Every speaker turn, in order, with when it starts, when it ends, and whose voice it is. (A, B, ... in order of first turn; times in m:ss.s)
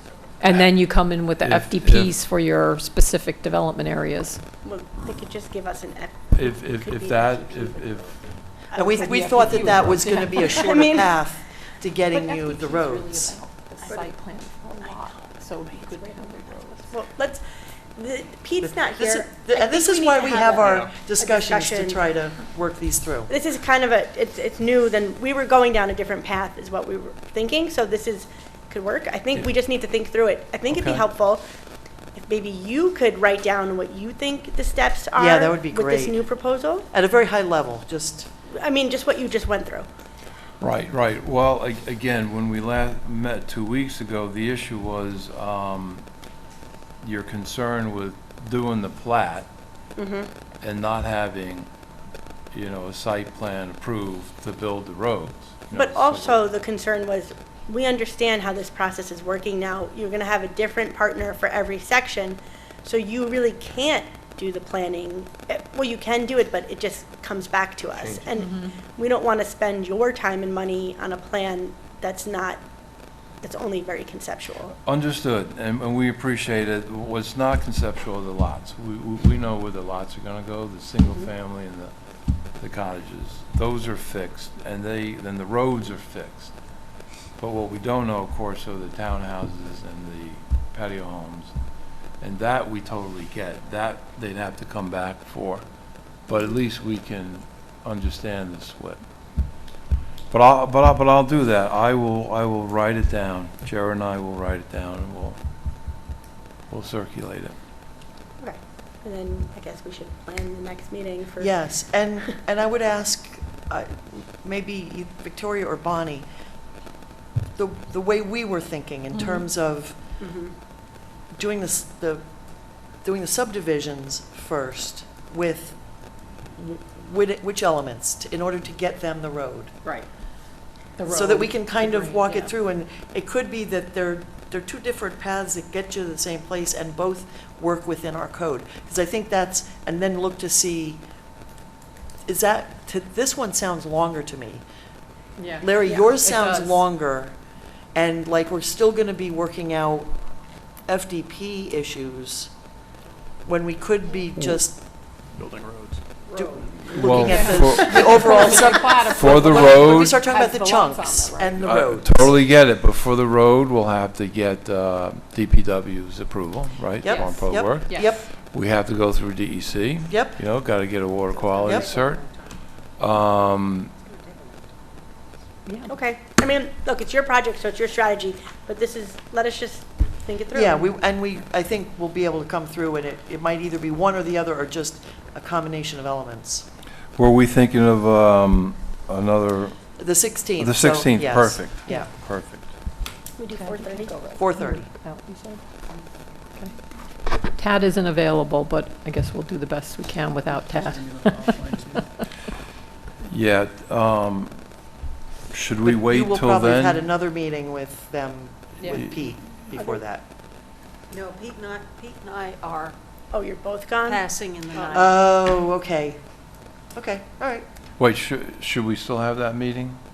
0:00.4-0:04.4 A
0:01.4-0:02.1 B
0:04.6-0:07.8 C
0:06.3-0:08.2 B
0:08.7-0:11.1 C
0:08.7-0:13.4 D
0:08.9-0:10.6 A
0:12.1-0:16.9 A
0:16.9-0:17.4 C
0:18.0-0:22.0 C
0:18.6-0:23.3 D
0:23.3-0:31.4 C
0:30.7-0:31.0 B
0:32.1-0:36.9 C
0:35.2-0:36.2 D
0:36.9-0:38.3 D
0:38.5-0:39.9 C
0:40.6-0:46.0 B
0:47.0-0:49.5 B
0:50.0-0:50.3 C
0:50.6-0:51.7 B
0:52.5-0:56.5 B
0:55.7-1:12.6 C
1:13.4-1:14.8 C
1:14.8-1:21.9 B
1:22.6-1:26.6 B
1:27.4-1:31.5 B
1:32.2-1:35.6 B
1:36.3-1:39.0 B
1:40.3-1:45.4 B
1:46.7-1:47.6 B
1:48.4-1:51.6 C
1:51.4-1:56.2 D
1:57.6-2:00.2 D
1:59.1-1:59.4 A
2:00.2-2:00.5 C
2:01.3-2:09.7 D
2:11.0-2:12.5 A
2:11.1-2:21.0 D
2:22.2-2:24.6 D
2:25.4-2:26.8 A
2:25.6-2:27.3 D
2:27.9-2:30.1 D
2:30.8-2:32.5 D
2:33.4-2:34.8 D
2:35.4-2:36.0 E
2:36.3-2:42.3 D
2:36.9-2:40.2 B
2:37.2-2:41.6 A
2:41.6-2:52.2 B
2:47.0-2:48.2 D
2:47.0-2:48.1 A
2:50.1-2:50.4 D
2:51.6-2:52.0 D
2:53.0-2:53.9 B
2:55.6-2:55.9 A
2:55.9-3:00.8 C
3:00.5-3:06.7 D
3:07.2-3:10.0 B
3:10.0-3:12.1 D
3:10.6-3:12.7 B
3:13.4-3:14.4 C
3:13.5-3:15.8 A
3:14.4-3:14.9 D
3:17.4-3:22.0 A
3:20.8-3:22.0 E
3:23.2-3:24.6 B
3:25.5-3:27.0 B
3:25.8-3:30.2 D
3:29.8-3:30.0 C
3:31.1-3:32.9 F
3:33.3-3:35.0 C
3:34.0-3:35.2 F
3:34.8-3:36.2 D
3:36.9-3:37.6 D
3:38.0-3:40.0 B